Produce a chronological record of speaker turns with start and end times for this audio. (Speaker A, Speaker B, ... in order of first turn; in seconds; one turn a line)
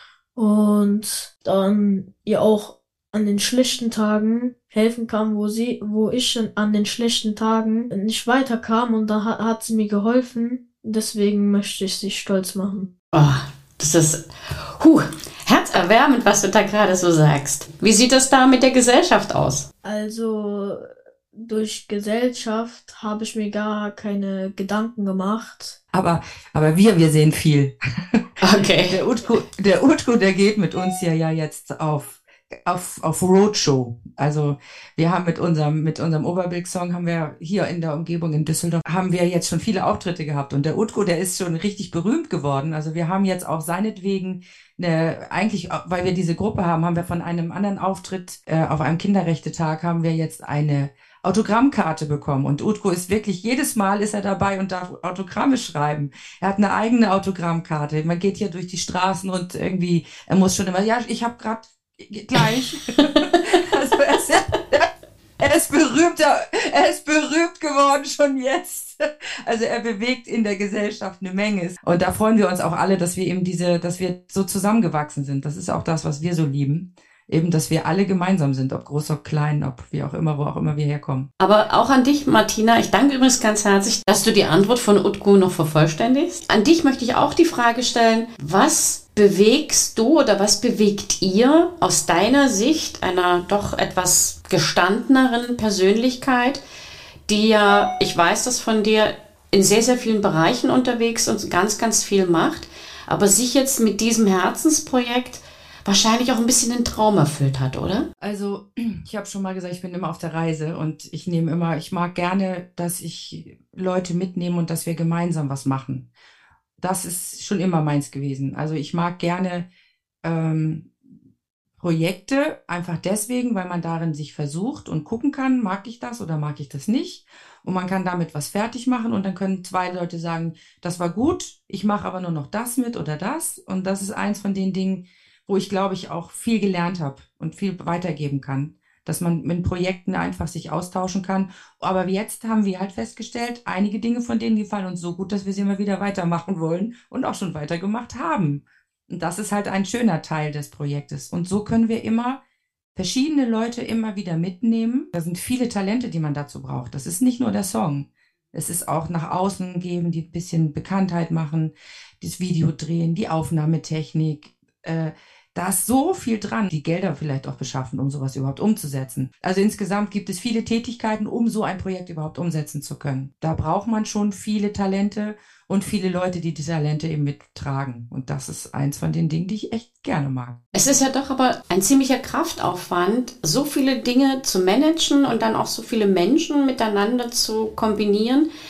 Speaker A: 0.4-12.9
Speaker B: 13.1-19.7
Speaker A: 19.8-25.8
Speaker C: 25.9-28.2
Speaker B: 28.4-29.0
Speaker C: 28.9-64.9
Speaker C: 65.4-81.3
Speaker B: 81.4-96.6
Speaker B: 97.3-108.1
Speaker C: 108.2-116.1
Speaker C: 116.8-119.7
Speaker C: 120.2-120.9
Speaker C: 121.8-152.4
Speaker C: 152.9-180.6
Speaker B: 180.7-188.5